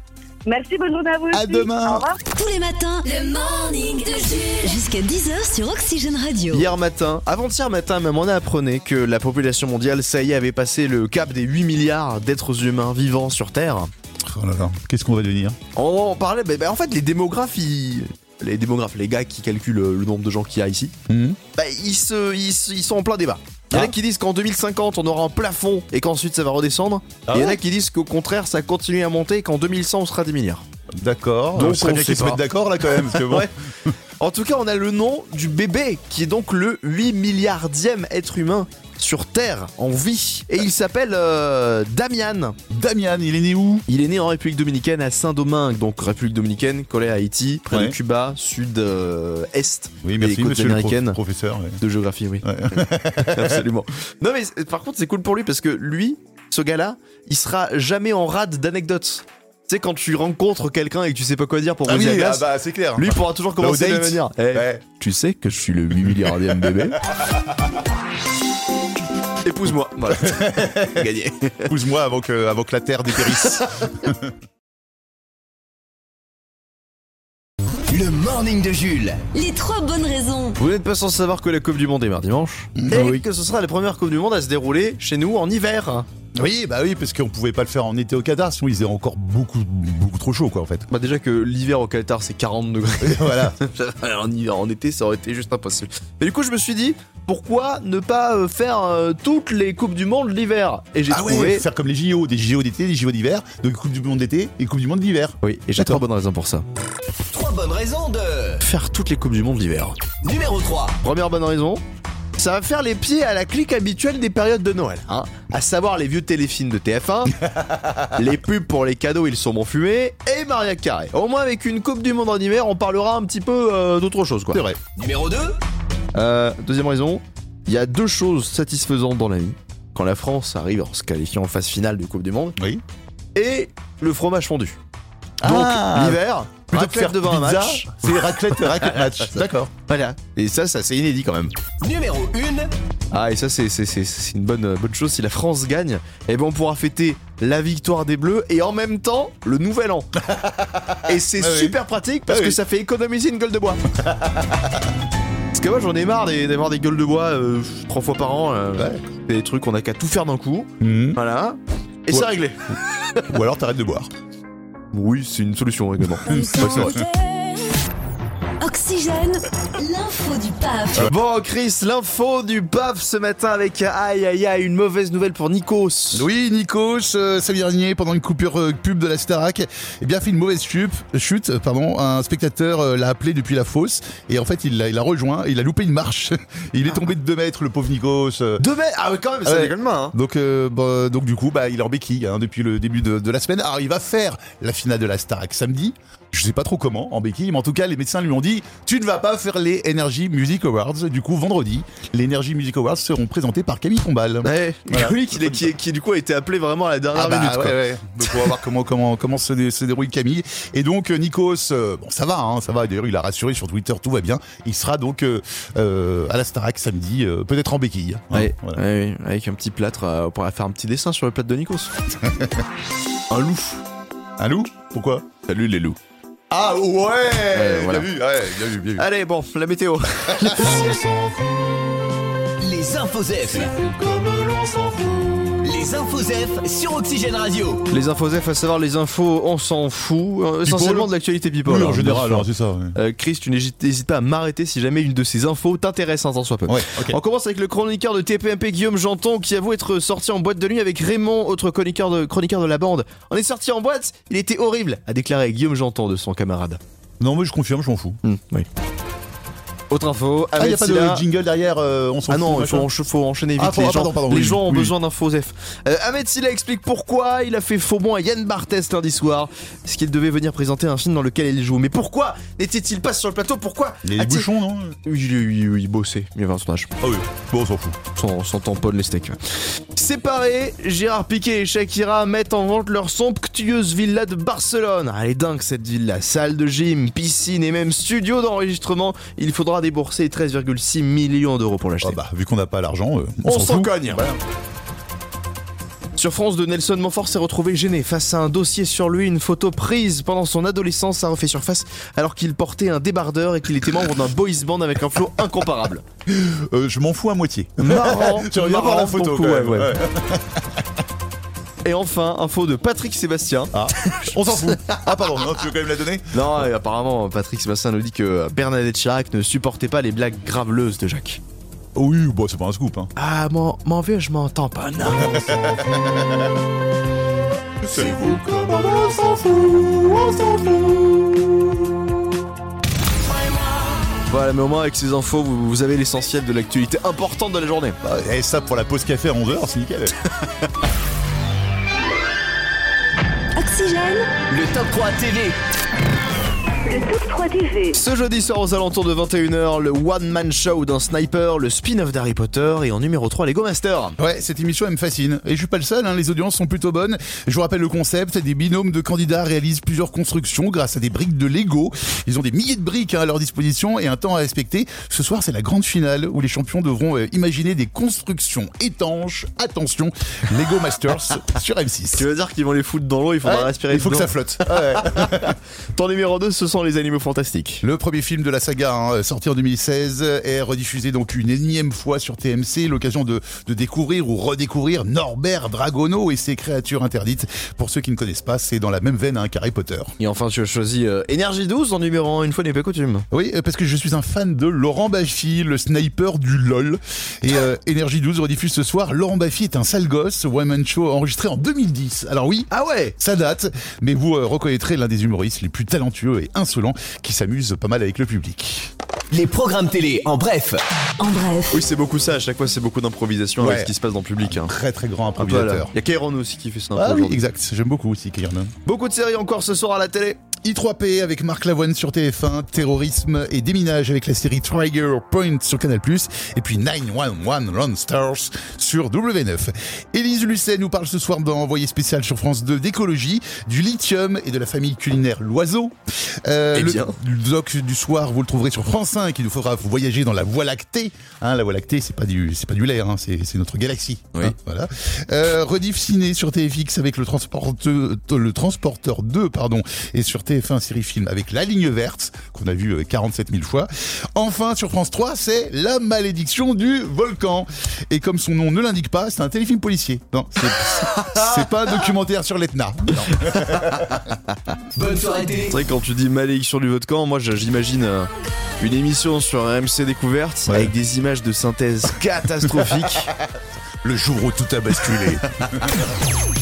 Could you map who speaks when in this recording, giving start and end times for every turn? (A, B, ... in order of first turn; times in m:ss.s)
0:00.4-0:02.2 A
0:01.3-0:02.1 B
0:02.3-0:06.7 C
0:06.5-0:13.9 D
0:14.2-0:15.6 B
0:15.7-0:20.9 D
0:21.1-0:21.4 B
0:21.6-0:30.6 D
0:27.3-0:27.6 B
0:31.0-0:33.9 B
0:31.6-0:33.5 D
0:34.2-0:42.6 D
0:42.7-0:43.8 B
0:43.9-0:51.2 D
0:47.7-0:47.9 B
0:50.0-0:51.8 B
0:51.8-1:07.0 D
0:52.4-0:53.6 B
1:01.8-1:04.8 B
1:06.1-1:06.8 B
1:09.4-1:11.7 D
1:10.1-1:11.1 B
1:11.6-1:14.3 B
1:17.9-1:19.2 E
1:19.3-1:20.6 C
1:20.6-1:26.1 D
1:22.8-1:23.2 B
1:26.3-1:30.8 B
1:30.9-1:41.6 D
1:33.0-1:33.6 B
1:41.1-1:46.0 B
1:45.4-1:46.6 D
1:47.3-1:48.6 E
1:48.6-1:50.0 D
1:50.2-1:51.0 E
1:51.0-1:51.8 D
1:52.4-1:57.4 D
1:57.4-1:58.1 B
1:58.1-2:04.6 D
2:04.5-2:04.8 B
2:05.0-2:05.6 E
2:06.1-2:12.6 D
2:12.6-2:12.8 B
2:13.3-2:14.8 D
2:15.4-2:19.7 B
2:15.4-2:21.5 D
2:21.8-2:22.7 E
2:23.1-2:30.2 D
2:30.3-2:32.6 B
2:31.0-2:33.8 D
2:34.0-2:34.7 B
2:35.5-2:42.8 D
2:38.8-2:39.0 B
2:40.8-2:41.2 B
2:43.2-2:44.1 B
2:44.9-2:46.9 D
2:46.2-2:47.0 B
2:46.2-2:47.8 C
2:48.6-2:51.1 C
2:51.0-2:56.3 D
2:56.1-3:08.6 B
3:08.6-3:10.1 D
3:09.4-3:25.7 B
3:24.4-3:28.3 D
3:27.1-3:38.8 B
3:38.3-3:41.9 D
3:42.2-3:42.6 B
3:43.3-3:43.8 D
3:44.4-3:45.2 B
3:45.5-3:46.0 D
3:46.5-3:49.0 B
3:47.5-3:48.1 D
3:49.0-3:51.0 D
3:50.3-3:51.0 B
3:52.6-3:53.7 E
3:55.6-3:57.8 E
3:57.9-4:16.8 D
4:00.6-4:01.1 B
4:01.6-4:02.9 B
4:06.7-4:07.2 B
4:17.2-4:18.2 B
4:18.2-4:18.7 D
4:19.9-4:21.2 D
4:20.5-4:22.9 B
4:22.3-4:34.5 D
4:23.6-4:25.0 B
4:34.0-4:35.0 B
4:35.0-4:36.9 D
4:37.0-4:38.0 B
4:38.1-4:39.4 D
4:40.0-4:52.2 D
4:52.0-4:54.4 B
4:53.4-4:54.2 D
4:56.2-5:06.0 D
5:06.3-5:10.8 B
5:07.8-5:10.0 D
5:11.8-5:13.7 D
5:13.7-5:16.6 B
5:16.3-5:21.4 D
5:21.9-5:23.1 B
5:23.2-5:25.7 D
5:25.1-5:26.4 B
5:27.9-5:31.2 D
5:27.9-5:29.3 B
5:34.3-5:38.0 D
5:38.0-5:40.2 B
5:43.6-5:44.3 C
5:44.5-5:45.6 E
5:46.8-5:48.0 A
5:47.9-5:54.2 D
5:54.2-6:12.2 B
6:12.1-6:17.8 D
6:13.4-6:15.6 B
6:17.8-6:30.1 B
6:30.2-6:33.2 D
6:33.3-6:48.9 B
6:42.7-6:43.1 D
6:49.3-6:50.8 E
6:51.2-6:51.8 C
6:51.7-6:54.7 D
6:53.6-6:55.9 B
6:55.4-6:57.4 D
6:56.9-6:58.7 B
6:58.8-7:00.4 D
7:00.6-7:44.2 B
7:16.7-7:17.2 D
7:40.9-7:41.5 D
7:44.9-7:45.7 E
7:45.7-7:53.3 D
7:54.0-7:56.0 B